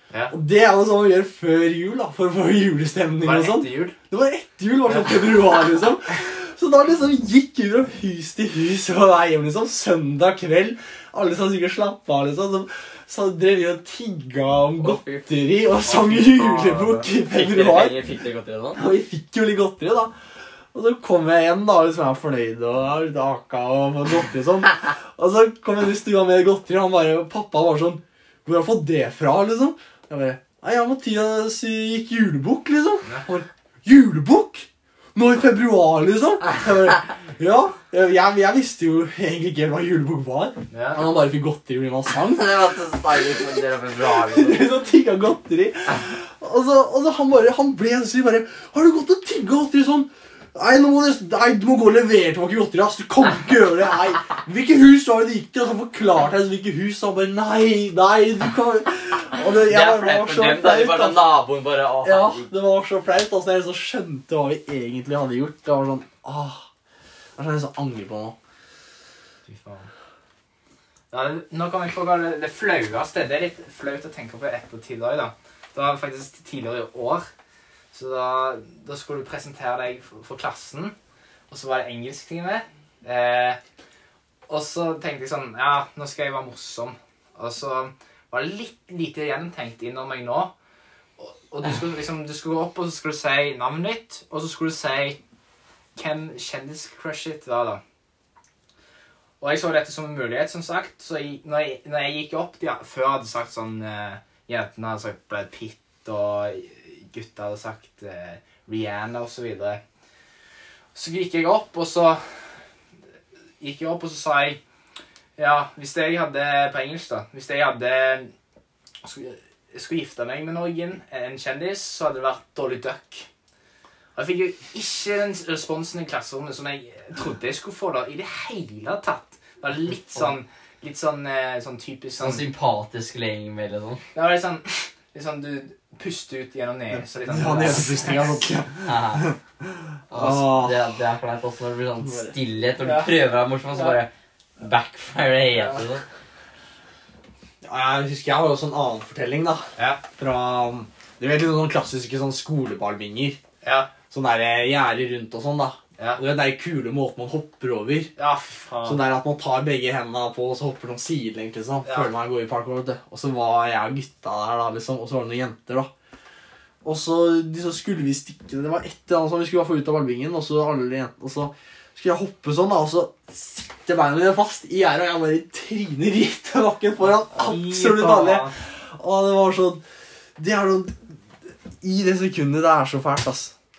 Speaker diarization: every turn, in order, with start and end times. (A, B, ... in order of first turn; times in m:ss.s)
0:00.3-0:18.0 A
0:03.2-0:04.0 B
0:14.8-0:15.3 C
0:15.9-0:18.8 C
0:18.8-0:20.1 A
0:20.7-0:42.7 A
0:40.7-0:41.1 B
0:42.2-0:44.7 C
0:44.0-1:01.2 A
0:59.6-1:02.5 C
1:02.0-1:06.7 A
1:07.4-1:08.4 A
1:09.5-1:09.9 B
1:11.1-1:17.3 B
1:17.9-1:21.0 B
1:21.5-1:23.6 B
1:24.5-1:30.5 B
1:31.2-1:35.2 B
1:36.0-1:37.8 B
1:39.4-1:49.8 B
1:51.0-1:52.4 B
1:53.6-1:54.6 B
1:55.4-1:58.3 B
1:59.0-2:03.3 B
2:04.2-2:12.5 B
2:12.2-2:14.0 C
2:14.1-2:18.4 B
2:16.9-2:21.0 A
2:18.9-2:19.3 C
2:20.1-2:26.0 C
2:22.0-2:22.4 A
2:22.8-2:23.1 B
2:23.7-2:24.0 B
2:25.6-2:25.8 B
2:27.6-2:33.4 A
2:29.8-2:30.0 B
2:33.6-2:33.9 B
2:34.1-2:38.1 A
2:38.2-2:39.0 B
2:38.8-2:45.9 A
2:41.8-2:42.1 B
2:46.8-2:59.8 A
2:57.0-2:58.6 B
3:00.4-3:03.5 A